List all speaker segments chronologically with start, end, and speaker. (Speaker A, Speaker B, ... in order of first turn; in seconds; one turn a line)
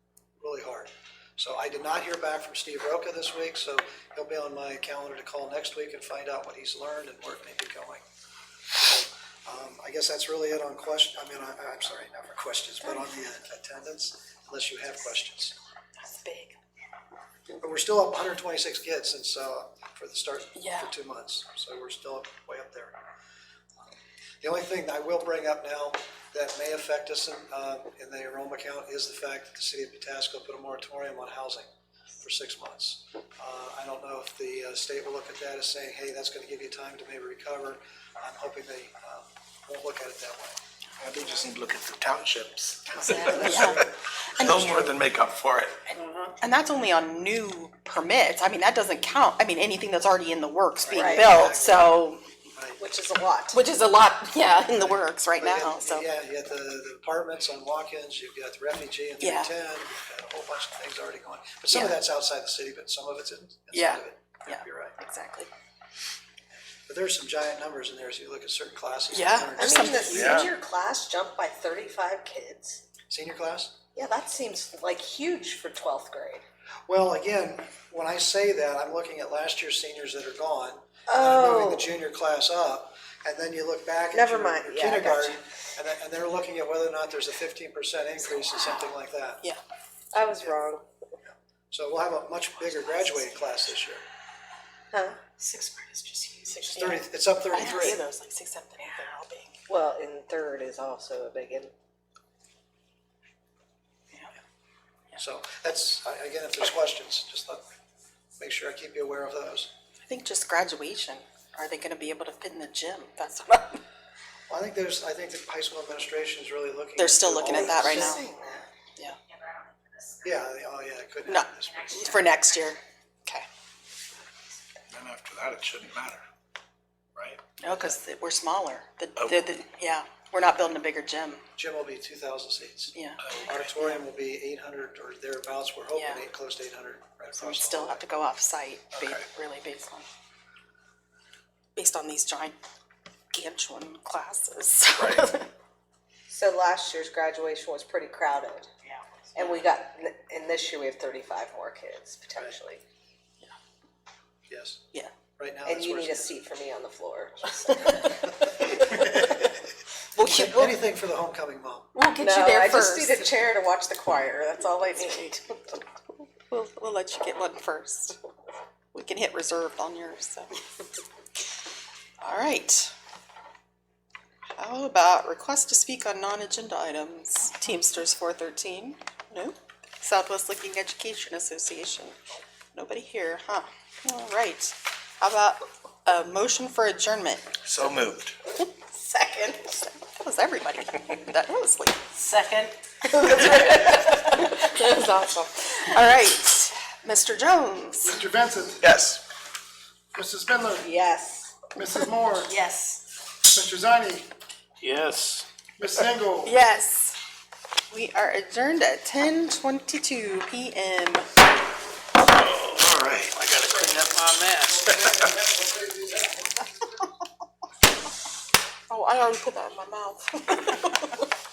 Speaker A: 0.4-8.0
Speaker A: 8.8-15.6
Speaker B: 16.0-16.6
Speaker A: 17.6-23.0
Speaker B: 20.6-20.9
Speaker A: 23.9-31.7
Speaker A: 32.2-40.6
Speaker C: 41.0-43.9
Speaker A: 43.2-43.7
Speaker B: 43.3-43.8
Speaker B: 44.4-44.9
Speaker C: 44.5-45.9
Speaker D: 46.0-46.3
Speaker B: 46.4-52.2
Speaker A: 50.8-51.9
Speaker D: 50.9-51.3
Speaker D: 52.8-53.6
Speaker B: 53.5-56.1
Speaker A: 54.8-65.0
Speaker B: 59.2-59.5
Speaker B: 61.7-62.0
Speaker B: 63.7-65.5
Speaker A: 66.9-70.5
Speaker B: 69.1-70.5
Speaker D: 69.6-72.8
Speaker C: 70.1-70.5
Speaker A: 73.1-73.8
Speaker D: 74.0-76.4
Speaker A: 76.9-89.4
Speaker D: 81.1-81.9
Speaker D: 84.1-85.4
Speaker D: 90.1-90.9
Speaker A: 90.3-90.6
Speaker A: 91.3-94.0
Speaker D: 94.9-96.6
Speaker B: 96.5-99.5
Speaker A: 96.7-98.0
Speaker D: 97.6-98.0
Speaker D: 99.7-101.7
Speaker A: 105.2-107.6
Speaker A: 108.4-109.7
Speaker B: 110.1-113.8
Speaker A: 114.5-118.2
Speaker B: 117.0-118.2
Speaker D: 117.5-118.7
Speaker A: 120.2-122.2
Speaker B: 121.3-123.5
Speaker C: 124.9-126.2
Speaker C: 127.2-127.4
Speaker B: 127.6-131.4
Speaker C: 129.2-129.4
Speaker A: 131.6-132.9
Speaker B: 132.9-133.5
Speaker A: 133.5-138.0
Speaker B: 135.9-136.2
Speaker B: 137.4-140.1
Speaker B: 141.8-142.6
Speaker B: 143.3-145.5
Speaker C: 145.0-145.3
Speaker D: 146.3-148.7
Speaker B: 148.9-149.6
Speaker D: 149.3-152.8
Speaker A: 154.5-154.8
Speaker A: 155.4-156.3
Speaker D: 155.7-159.2
Speaker A: 158.7-159.5
Speaker B: 160.2-160.8
Speaker A: 160.2-161.9
Speaker B: 161.9-163.4
Speaker D: 162.2-165.8
Speaker B: 166.1-168.2
Speaker B: 168.9-170.5
Speaker B: 172.2-172.9
Speaker B: 174.6-182.2
Speaker B: 182.7-187.5
Speaker C: 187.6-188.3
Speaker D: 188.9-189.8
Speaker B: 189.9-192.0
Speaker E: 192.2-192.7
Speaker B: 193.2-194.7
Speaker D: 193.3-195.7
Speaker B: 195.8-198.2
Speaker F: 198.1-198.8
Speaker C: 198.8-199.2
Speaker F: 200.1-200.9
Speaker D: 200.8-201.7
Speaker F: 201.8-202.6
Speaker F: 203.4-204.3
Speaker E: 204.8-205.5
Speaker F: 205.8-206.6
Speaker B: 206.4-207.2
Speaker B: 207.9-211.3
Speaker C: 212.3-213.4
Speaker E: 213.3-214.9
Speaker C: 214.9-215.3
Speaker F: 215.4-215.7
Speaker B: 218.9-221.3